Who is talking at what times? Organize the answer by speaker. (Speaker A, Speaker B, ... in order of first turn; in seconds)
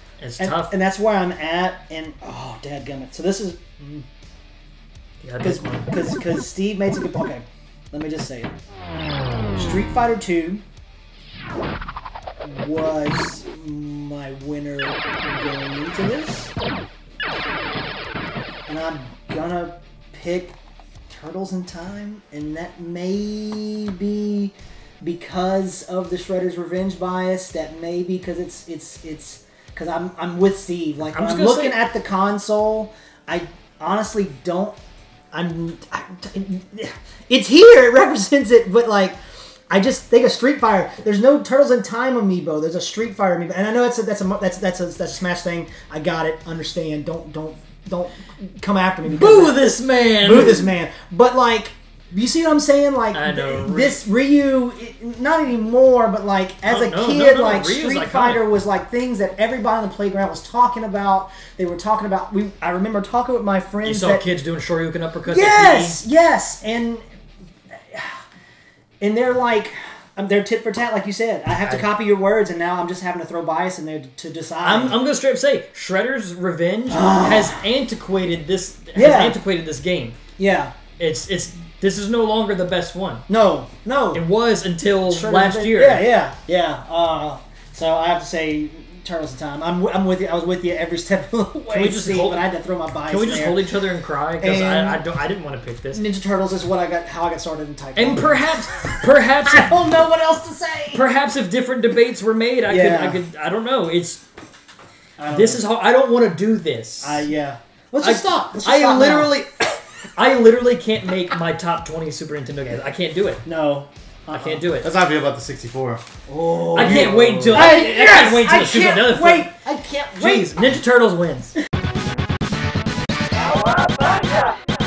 Speaker A: 0.2-0.7, 5.2-5.9, 31.1-31.8, 49.0-50.7, 53.1-54.0, 56.6-58.5, 63.8-66.0, 71.6-71.9, 74.6-80.2, 81.0-83.2, 84.1-86.1, 91.7-92.4, 93.1-96.0, 98.0-99.7, 100.9-104.2, 105.3-107.3, 108.0-113.4, 114.3-114.9, 116.7-119.5, 120.2-121.5
Speaker B: 0.4-4.1, 5.4-8.5, 9.6-10.6, 12.4-16.5, 18.7-20.6, 21.1-34.8, 35.3-39.2, 39.7-64.2, 65.3-67.0, 67.7-68.2, 69.0-75.0, 76.9-77.7, 79.0-79.4, 80.4-80.7, 83.3-84.2, 85.0-93.7, 94.4-95.0, 95.9-101.0, 102.7-103.2, 105.2-105.7, 107.0-109.4, 113.5-114.7, 116.3-120.7
Speaker C: 114.8-116.0, 116.7-117.8